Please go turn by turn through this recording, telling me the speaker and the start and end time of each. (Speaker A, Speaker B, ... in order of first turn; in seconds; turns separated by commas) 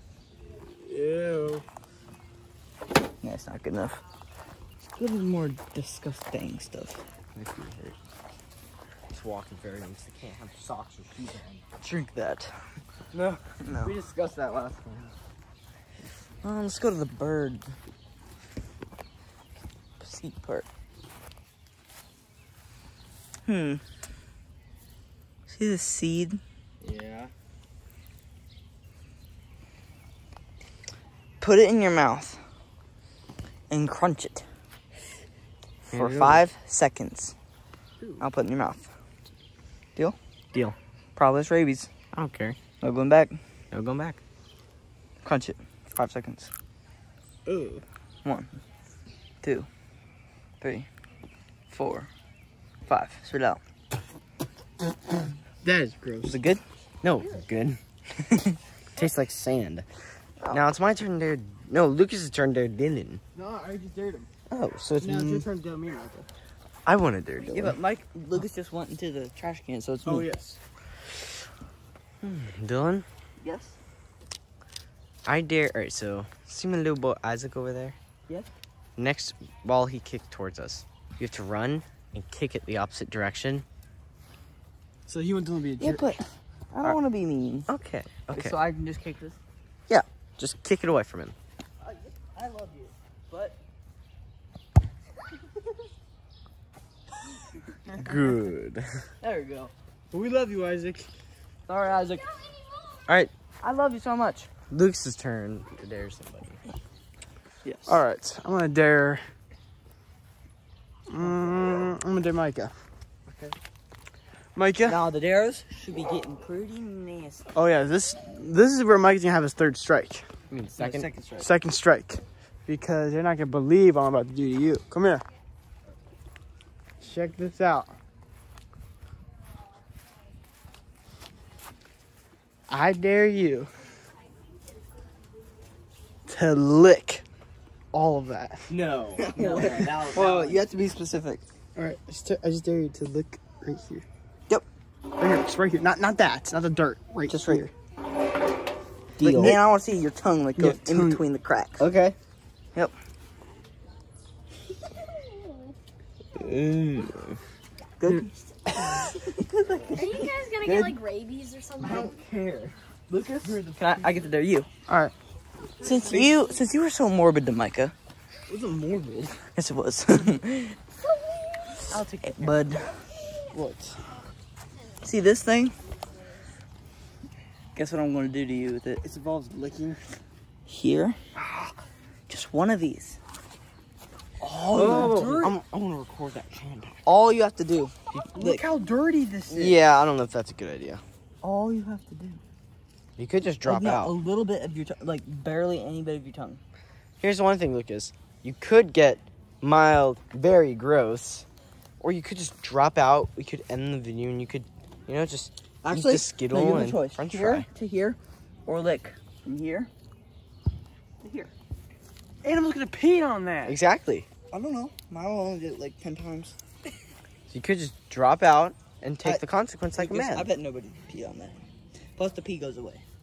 Speaker A: 0.8-1.6, Speaker B: 3.2-4.0, Speaker B: 5.0-7.0, Speaker C: 7.3-8.0, Speaker C: 9.1-11.6, Speaker B: 11.8-14.0, Speaker C: 13.8-15.1, Speaker B: 16.4-17.7, Speaker B: 20.0-20.7, Speaker B: 23.4-23.8, Speaker B: 25.5-26.4, Speaker C: 26.8-27.3, Speaker B: 31.4-32.4, Speaker B: 33.7-34.5, Speaker C: 35.9-36.4, Speaker B: 35.9-37.3, Speaker B: 38.2-38.9, Speaker B: 41.1-41.9, Speaker C: 42.1-42.6, Speaker B: 42.8-43.4, Speaker C: 43.7-44.2, Speaker B: 45.2-46.5, Speaker C: 47.5-47.8, Speaker B: 48.2-48.6, Speaker B: 49.4-49.7, Speaker B: 50.6-50.9, Speaker B: 51.7-52.1, Speaker B: 52.9-53.6, Speaker A: 55.6-56.3, Speaker B: 56.2-56.6, Speaker C: 57.0-57.8, Speaker C: 59.0-59.8, Speaker B: 60.4-60.7, Speaker C: 60.5-63.2, Speaker A: 63.3-64.3, Speaker C: 64.5-65.5, Speaker A: 65.0-66.3, Speaker C: 66.8-67.8, Speaker B: 67.4-70.3, Speaker A: 70.0-70.6, Speaker C: 72.2-73.0, Speaker B: 73.4-73.8, Speaker C: 75.2-78.0, Speaker C: 79.0-83.6, Speaker A: 85.1-86.1, Speaker B: 85.8-87.7, Speaker C: 87.7-88.6, Speaker B: 88.3-89.4, Speaker C: 89.9-91.3, Speaker B: 91.8-93.6, Speaker C: 98.0-99.0, Speaker B: 99.2-99.7, Speaker A: 100.1-101.1, Speaker B: 101.7-102.3, Speaker C: 103.1-103.3, Speaker B: 103.6-104.5, Speaker C: 104.7-106.6, Speaker B: 107.6-108.0, Speaker A: 107.9-109.2, Speaker A: 111.1-112.7, Speaker C: 113.3-113.5, Speaker A: 114.5-115.0, Speaker B: 114.8-117.5, Speaker A: 117.5-120.3, Speaker C: 120.5-121.1, Speaker B: 120.8-121.5, Speaker A: 121.4-125.2, Speaker A: 127.0-127.9, Speaker A: 132.7-133.7, Speaker A: 136.3-137.2, Speaker A: 137.9-138.7, Speaker C: 138.7-140.7, Speaker B: 139.2-141.4, Speaker A: 141.7-144.0, Speaker A: 145.2-147.7, Speaker B: 147.3-147.6, Speaker C: 149.2-149.6, Speaker B: 149.2-151.9, Speaker A: 150.6-151.2, Speaker C: 151.8-152.2, Speaker C: 156.3-157.4, Speaker B: 158.0-160.8, Speaker D: 159.9-162.1, Speaker C: 160.7-160.9, Speaker C: 161.8-163.9, Speaker B: 163.7-164.7, Speaker A: 164.9-165.1, Speaker B: 165.8-167.9, Speaker A: 168.5-169.4, Speaker B: 169.6-170.8, Speaker A: 172.1-172.5, Speaker B: 172.2-173.0, Speaker A: 173.5-174.0, Speaker B: 175.0-175.8, Speaker B: 177.7-179.0, Speaker A: 179.0-180.0, Speaker B: 180.7-181.2, Speaker B: 182.3-183.2, Speaker A: 184.4-185.6, Speaker B: 184.4-185.4, Speaker C: 184.7-187.0, Speaker B: 187.0-188.6, Speaker A: 188.3-189.8, Speaker C: 189.5-191.0, Speaker B: 191.4-192.4, Speaker C: 193.2-194.1, Speaker B: 193.6-196.6, Speaker C: 197.2-201.4, Speaker C: 202.0-207.7, Speaker B: 205.8-209.9, Speaker B: 211.2-211.5, Speaker A: 212.4-213.8, Speaker C: 213.6-214.3, Speaker B: 214.5-216.5, Speaker C: 217.5-220.5, Speaker B: 220.0-221.6, Speaker B: 222.2-223.0